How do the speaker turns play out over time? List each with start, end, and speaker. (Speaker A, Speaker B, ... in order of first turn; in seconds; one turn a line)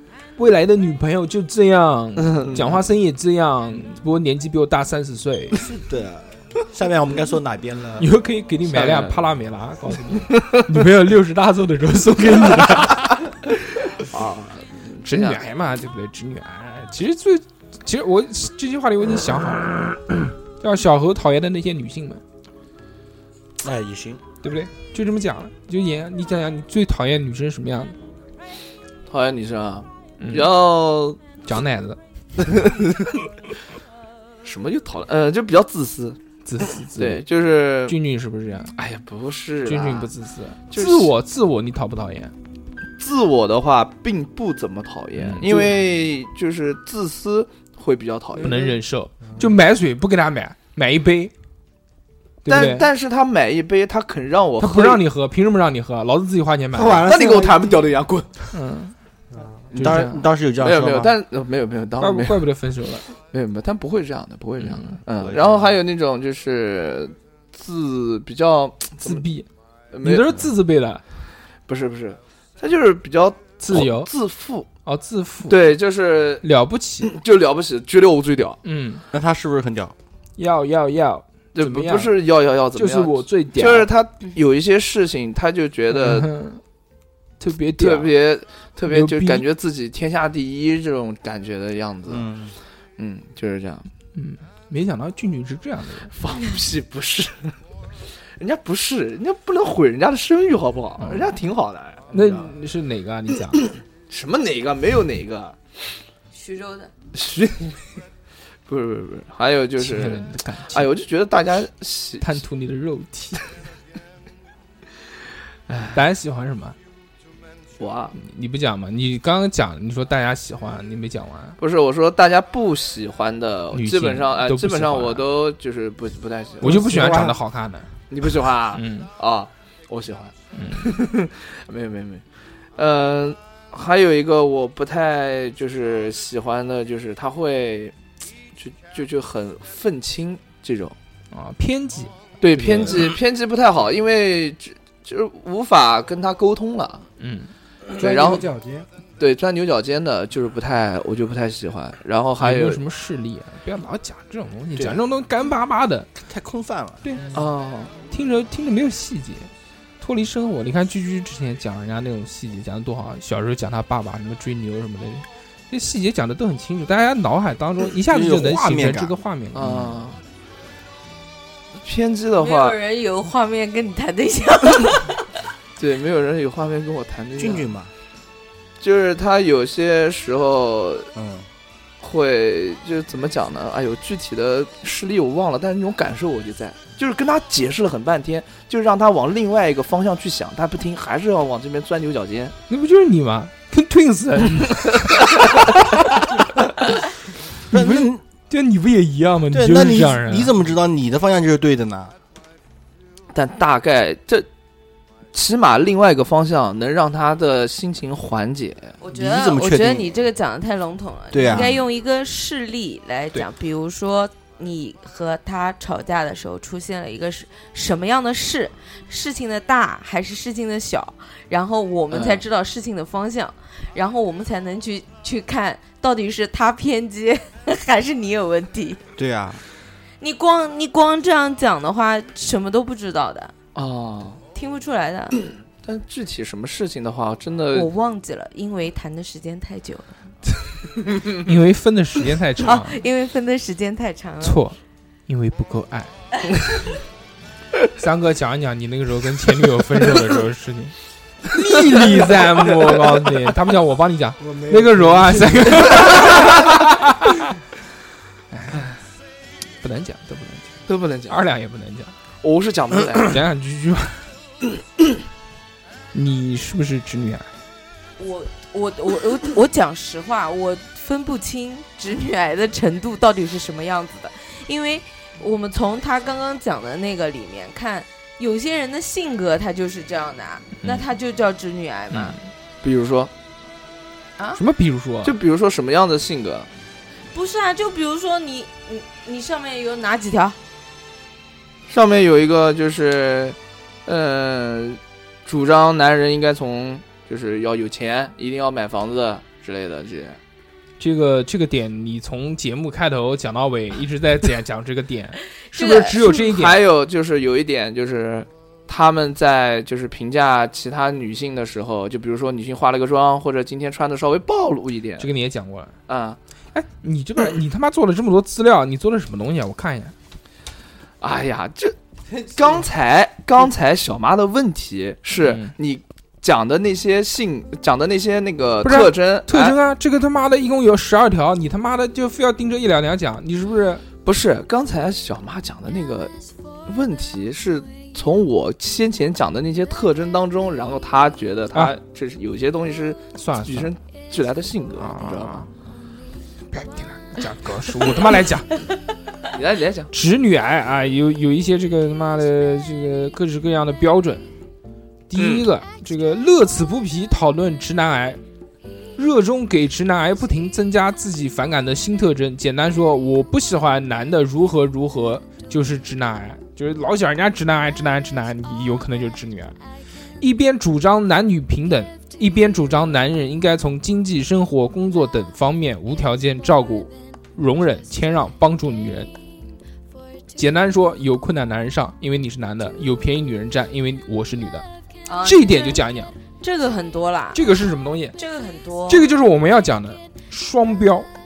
Speaker A: 0.4-5.6
Speaker B: 2.2-2.8
Speaker C: 5.6-8.1
Speaker A: 8.0-13.1
Speaker B: 8.7-9.2
Speaker B: 10.3-10.6
Speaker B: 14.0-15.4
Speaker A: 15.1-19.8
Speaker A: 20.6-22.2
Speaker C: 23.6-24.2
Speaker A: 24.4-27.9
Speaker B: 29.1-31.2
Speaker A: 30.2-30.5
Speaker A: 31.4-32.0
Speaker B: 32.4-33.2
Speaker B: 34.4-36.2
Speaker A: 36.4-37.2
Speaker B: 37.0-38.0
Speaker A: 37.9-38.7
Speaker B: 38.8-40.1
Speaker A: 39.6-42.3
Speaker B: 40.7-41.1
Speaker B: 43.0-48.6
Speaker A: 45.2-45.8
Speaker D: 48.4-49.5
Speaker A: 48.4-51.3
Speaker A: 52.4-52.9
Speaker B: 52.5-55.0
Speaker A: 54.6-57.1
Speaker D: 56.7-57.9
Speaker B: 57.1-58.5
Speaker A: 58.5-58.9
Speaker D: 59.3-59.7
Speaker B: 59.7-62.5
Speaker C: 59.7-61.1
Speaker A: 59.8-60.2
Speaker A: 62.0-63.0
Speaker B: 63.2-69.2
Speaker A: 64.6-65.0
Speaker C: 65.2-65.7
Speaker A: 69.0-69.5
Speaker B: 69.9-70.5
Speaker A: 70.0-71.0
Speaker B: 71.7-74.7
Speaker A: 73.6-74.1
Speaker A: 74.8-75.7
Speaker B: 75.5-76.5
Speaker A: 76.4-77.1
Speaker B: 77.0-78.6
Speaker A: 78.6-79.0
Speaker C: 79.1-79.9
Speaker A: 80.4-82.1
Speaker B: 81.5-86.3
Speaker A: 82.7-83.9
Speaker A: 85.9-86.6
Speaker A: 87.4-88.1
Speaker B: 87.8-92.3
Speaker A: 88.9-89.4
Speaker C: 92.1-92.5
Speaker B: 93.0-93.9
Speaker A: 94.1-96.1
Speaker B: 96.1-97.6
Speaker B: 98.4-102.5
Speaker A: 101.0-101.3
Speaker A: 102.1-103.7
Speaker B: 103.6-105.6
Speaker E: 106.3-106.9
Speaker B: 107.1-107.8
Speaker B: 108.7-112.4
Speaker A: 109.8-110.9
Speaker A: 112.2-113.4
Speaker B: 115.7-116.0
Speaker A: 115.9-116.8
Speaker B: 117.8-118.1
Speaker A: 118.1-121.6
Speaker B: 121.6-126.8
Speaker A: 123.7-125.2
Speaker A: 126.6-127.9
Speaker D: 126.6-127.4
Speaker B: 128.1-132.2
Speaker A: 128.7-129.1
Speaker A: 130.5-131.0
Speaker B: 132.8-137.9
Speaker B: 138.5-140.9
Speaker A: 141.3-142.9
Speaker B: 142.4-147.1
Speaker A: 147.2-147.5
Speaker B: 147.9-148.5
Speaker D: 148.0-148.8
Speaker B: 149.2-152.8
Speaker A: 152.4-156.1
Speaker C: 156.2-157.0
Speaker B: 157.3-157.9
Speaker A: 158.1-159.5
Speaker A: 160.0-169.9
Speaker C: 168.0-169.2
Speaker B: 169.5-170.2
Speaker B: 171.8-172.8
Speaker E: 172.4-175.2
Speaker B: 175.8-177.7
Speaker C: 177.4-177.9
Speaker B: 178.8-181.1
Speaker C: 181.1-181.5
Speaker B: 182.0-192.5
Speaker A: 192.7-195.2
Speaker C: 197.7-198.2
Speaker A: 197.7-200.5
Speaker C: 199.5-202.1
Speaker B: 203.3-204.5
Speaker B: 205.3-208.9
Speaker E: 209.0-229.0
Speaker C: 209.1-210.1
Speaker C: 211.3-211.8
Speaker B: 222.1-222.4
Speaker C: 229.2-229.6
Speaker E: 230.2-233.5
Speaker B: 233.7-234.4
Speaker E: 234.5-235.4
Speaker B: 235.8-237.9
Speaker E: 237.7-240.2
Speaker A: 241.4-243.0
Speaker E: 242.6-244.6
Speaker A: 244.4-246.1
Speaker A: 248.0-257.5
Speaker D: 254.4-256.6
Speaker A: 258.5-258.9
Speaker A: 259.8-262.1
Speaker B: 260.9-261.4
Speaker B: 262.4-263.4
Speaker A: 263.2-264.3
Speaker A: 266.1-267.5
Speaker E: 268.2-282.4
Speaker A: 282.1-282.4
Speaker B: 282.8-283.3
Speaker A: 284.5-285.3
Speaker B: 285.2-286.7
Speaker E: 287.3-290.6
Speaker B: 291.9-300.4
Speaker A: 301.0-306.8
Speaker E: 305.8-306.2
Speaker B: 306.0-315.3
Speaker A: 315.2-315.9
Speaker B: 316.1-316.4
Speaker A: 316.7-320.1
Speaker B: 321.2-321.9
Speaker D: 322.3-322.9
Speaker B: 322.5-329.8
Speaker A: 325.4-325.7
Speaker A: 328.8-334.0
Speaker B: 334.2-336.3
Speaker B: 336.9-345.6
Speaker A: 343.4-343.9
Speaker A: 345.0-345.7
Speaker A: 346.7-348.8
Speaker B: 349.5-350.1
Speaker A: 350.1-354.4
Speaker A: 355.3-358.4
Speaker B: 355.4-355.6
Speaker A: 359.1-369.7
Speaker A: 370.4-379.3
Speaker A: 380.5-384.8
Speaker E: 385.3-386.0
Speaker A: 385.4-386.3
Speaker E: 386.5-387.6
Speaker A: 387.5-388.4
Speaker E: 388.4-389.2
Speaker A: 389.1-391.3